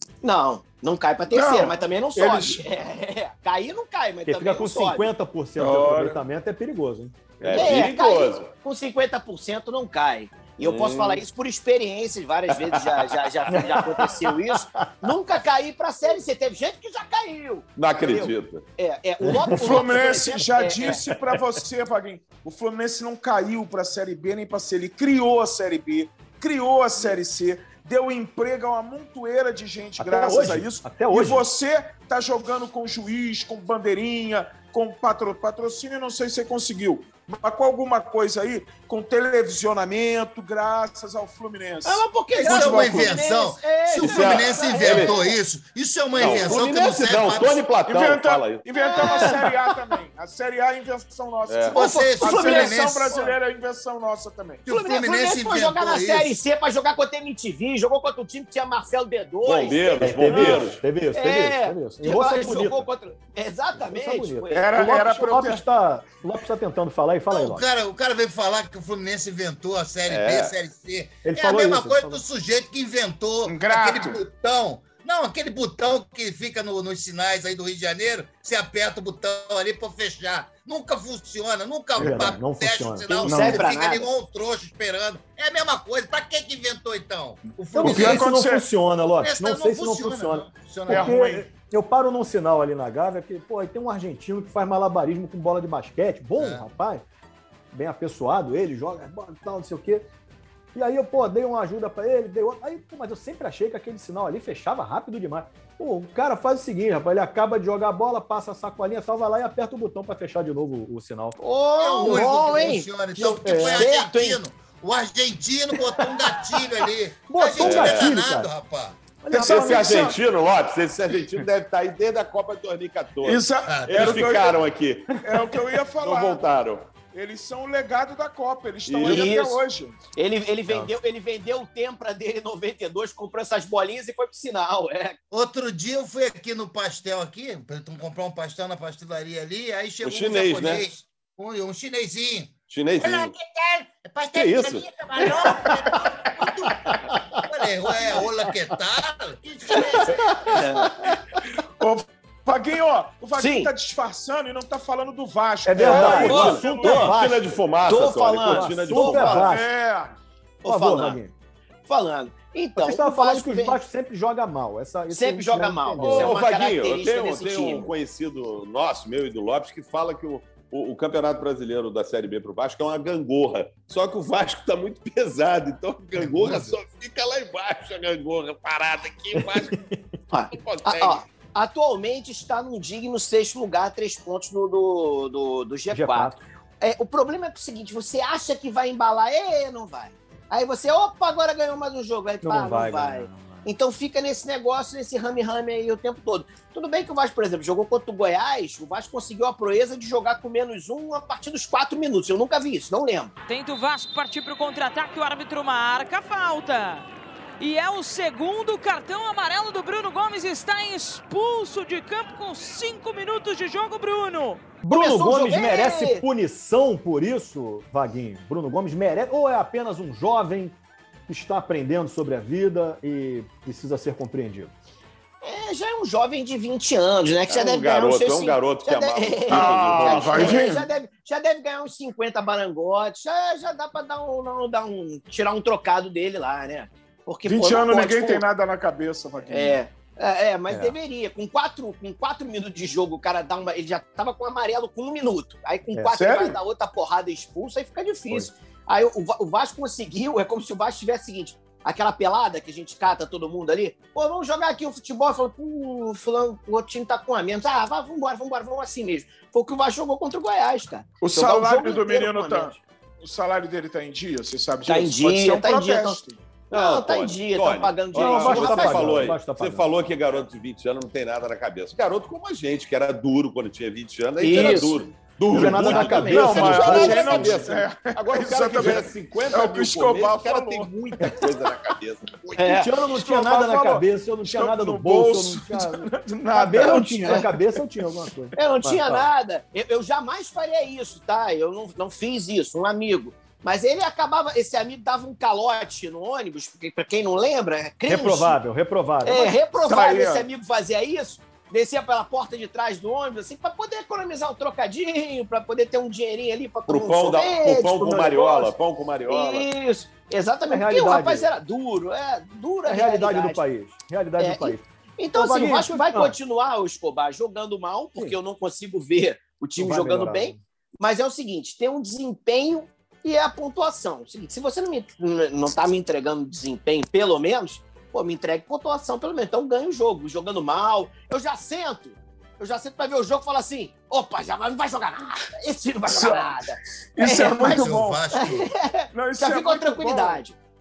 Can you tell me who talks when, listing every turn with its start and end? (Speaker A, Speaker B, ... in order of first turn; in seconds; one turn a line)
Speaker A: 0.2-5.1
Speaker B: 1.3-2.6
Speaker C: 4.2-7.7
Speaker B: 5.6-6.2
Speaker D: 7.4-8.5
Speaker A: 7.5-21.0
Speaker D: 10.6-11.2
Speaker D: 12.6-13.3
Speaker C: 13.5-14.9
Speaker D: 17.8-18.6
Speaker C: 19.2-19.5
Speaker B: 19.6-43.2
Speaker C: 30.0-31.4
Speaker A: 41.8-45.3
Speaker E: 42.3-47.6
Speaker D: 44.0-45.2
Speaker A: 46.2-46.5
Speaker D: 46.2-49.3
Speaker B: 47.9-54.7
Speaker A: 48.8-49.7
Speaker D: 51.5-51.7
Speaker E: 51.7-53.2
Speaker A: 51.7-53.4
Speaker E: 54.7-56.4
Speaker A: 54.7-64.7
Speaker D: 59.4-60.8
Speaker C: 60.0-62.9
Speaker C: 63.8-67.6
Speaker B: 64.5-65.6
Speaker E: 67.3-88.2
Speaker D: 70.1-70.6
Speaker C: 71.2-72.2
Speaker B: 73.5-74.2
Speaker C: 82.0-83.5
Speaker A: 83.2-84.0
Speaker B: 83.3-83.6
Speaker C: 87.7-97.0
Speaker B: 87.8-88.7
Speaker E: 89.2-91.1
Speaker B: 90.9-91.5
Speaker E: 96.4-96.7
Speaker C: 97.7-100.0
Speaker C: 100.7-111.4
Speaker A: 111.4-114.4
Speaker E: 111.8-119.0
Speaker C: 113.2-113.8
Speaker C: 117.3-118.5
Speaker D: 117.6-118.1
Speaker C: 119.2-120.1
Speaker B: 119.3-120.2
Speaker D: 119.4-125.2
Speaker B: 123.2-124.6
Speaker E: 123.7-124.3
Speaker B: 125.2-126.4
Speaker D: 126.0-126.9
Speaker B: 127.0-130.0
Speaker D: 128.8-129.3
Speaker A: 129.0-135.2
Speaker E: 135.3-150.9
Speaker D: 140.0-140.8
Speaker D: 142.7-143.3
Speaker D: 144.3-144.9
Speaker C: 146.8-147.4
Speaker A: 149.8-150.9
Speaker B: 151.6-157.2
Speaker A: 153.3-153.7
Speaker C: 155.7-157.5
Speaker A: 155.8-157.0
Speaker D: 155.9-159.4
Speaker A: 157.8-159.6
Speaker C: 158.5-159.7
Speaker B: 159.3-160.2
Speaker A: 160.6-161.2
Speaker C: 160.6-161.3
Speaker A: 161.8-163.8
Speaker C: 162.8-166.4
Speaker A: 165.1-167.9
Speaker D: 166.0-179.8
Speaker E: 176.2-176.7
Speaker C: 179.4-180.2
Speaker A: 180.3-203.3
Speaker D: 180.5-181.2
Speaker C: 185.9-186.4
Speaker C: 192.4-193.6
Speaker F: 203.5-207.0
Speaker F: 207.6-214.8
Speaker C: 214.8-220.8
Speaker A: 214.9-216.2
Speaker C: 221.3-224.7
Speaker A: 225.4-238.4
Speaker D: 227.5-230.7
Speaker B: 229.5-230.9
Speaker B: 237.4-239.8
Speaker A: 239.5-262.8
Speaker C: 240.7-240.9
Speaker B: 246.1-246.6
Speaker B: 261.2-266.4
Speaker A: 264.8-266.2
Speaker A: 266.7-269.4
Speaker D: 266.7-282.7
Speaker C: 268.1-269.9
Speaker A: 274.4-275.0
Speaker C: 275.4-277.1
Speaker A: 275.6-277.6
Speaker B: 276.3-280.9
Speaker A: 282.6-283.0
Speaker C: 282.6-289.2
Speaker B: 283.1-287.6
Speaker A: 286.8-287.4
Speaker A: 288.5-298.6
Speaker C: 298.1-299.5
Speaker A: 299.2-308.3
Speaker B: 299.8-300.5
Speaker D: 306.9-309.7
Speaker C: 308.0-308.7
Speaker A: 309.3-313.6
Speaker C: 310.7-311.5
Speaker C: 312.9-316.4
Speaker A: 314.4-340.5
Speaker C: 319.8-320.6
Speaker B: 336.1-336.6
Speaker B: 337.1-338.3
Speaker E: 337.6-338.7
Speaker B: 339.1-340.4